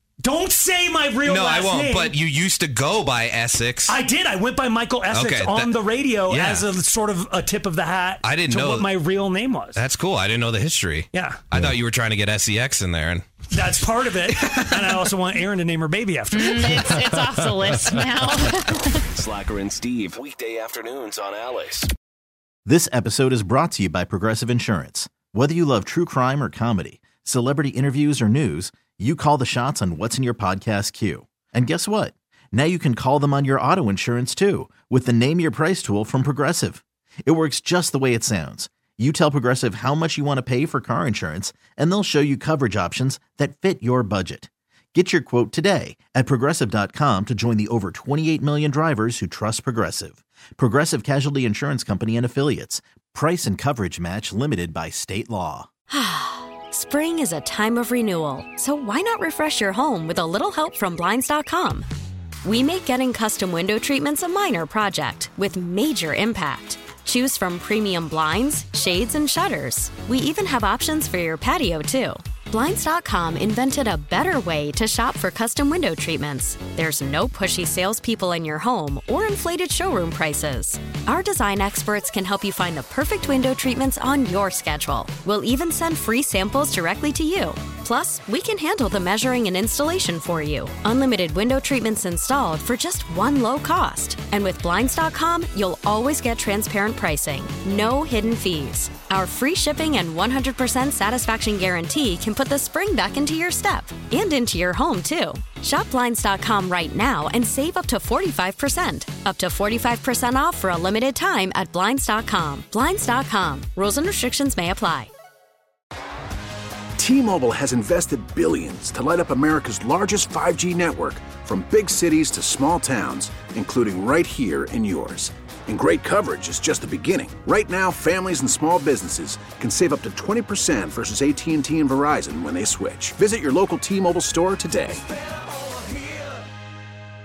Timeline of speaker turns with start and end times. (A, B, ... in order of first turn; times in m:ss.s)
0:00.2-0:02.2 A
0:01.2-0:04.0 B
0:03.9-0:09.8 A
0:05.1-0:06.7 B
0:08.2-0:09.0 B
0:09.7-0:13.3 B
0:11.1-0:11.4 A
0:13.5-0:16.9 A
0:14.5-0:15.0 B
0:16.3-0:19.0 C
0:19.2-0:21.8 D
0:22.6-0:55.7 E
0:55.9-1:01.8 F
1:02.4-1:55.1 F
1:57.0-2:15.0 G